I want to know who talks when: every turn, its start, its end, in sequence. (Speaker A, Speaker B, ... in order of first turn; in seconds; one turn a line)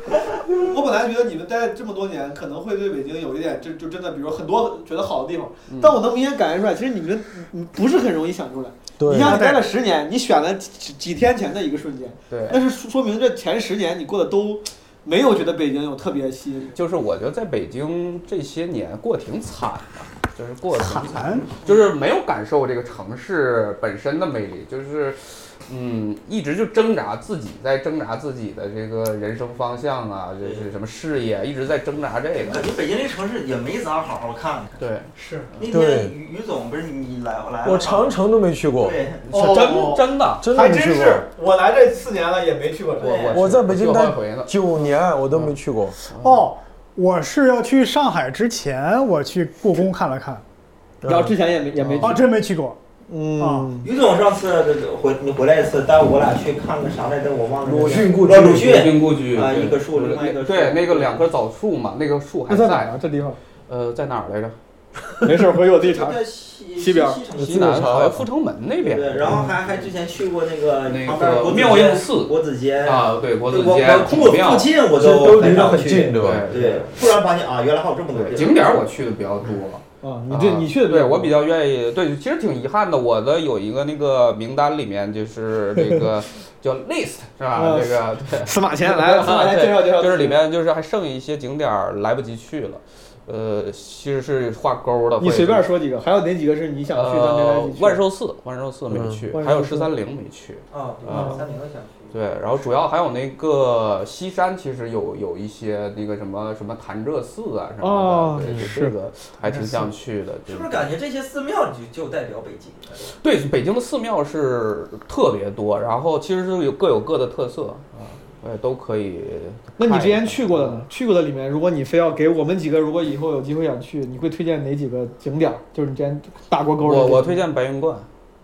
Speaker A: 0.5-16.7
Speaker B: 5.7-6.0
Speaker C: 9.0-9.4
Speaker D: 9.2-9.7
Speaker B: 12.3-12.6
Speaker B: 16.7-32.6
Speaker D: 20.8-21.5
Speaker E: 30.4-30.7
Speaker E: 32.4-34.8
Speaker B: 34.8-35.7
Speaker A: 35.1-35.5
Speaker E: 35.6-38.2
Speaker C: 35.7-36.1
Speaker C: 37.6-39.0
Speaker E: 38.8-39.7
Speaker B: 39.3-40.4
Speaker A: 39.3-43.3
Speaker C: 40.4-41.3
Speaker E: 43.0-43.4
Speaker B: 43.0-44.5
Speaker C: 43.3-46.0
Speaker B: 46.1-46.5
Speaker D: 46.2-50.4
Speaker C: 51.0-51.3
Speaker A: 51.0-52.2
Speaker B: 51.8-52.2
Speaker D: 52.0-52.8
Speaker A: 53.1-53.9
Speaker D: 53.4-53.7
Speaker E: 53.8-61.2
Speaker C: 57.6-58.9
Speaker B: 58.4-63.0
Speaker A: 62.5-63.4
Speaker B: 63.7-64.5
Speaker A: 65.2-66.2
Speaker E: 65.8-67.8
Speaker A: 66.8-67.2
Speaker B: 67.4-69.5
Speaker C: 67.4-68.3
Speaker E: 68.8-78.7
Speaker B: 70.8-74.8
Speaker C: 74.9-76.5
Speaker B: 75.4-77.1
Speaker B: 78.1-95.7
Speaker A: 80.0-81.4
Speaker A: 87.5-90.4
Speaker A: 95.2-98.0
Speaker B: 96.9-101.4
Speaker C: 98.9-99.3
Speaker A: 99.3-99.9
Speaker E: 100.7-102.1
Speaker A: 101.1-101.5
Speaker B: 102.1-110.9
Speaker A: 107.8-108.9
Speaker C: 108.4-108.7
Speaker A: 109.5-109.9
Speaker E: 110.5-113.1
Speaker B: 113.2-120.8
Speaker A: 119.8-127.4
Speaker B: 126.8-128.1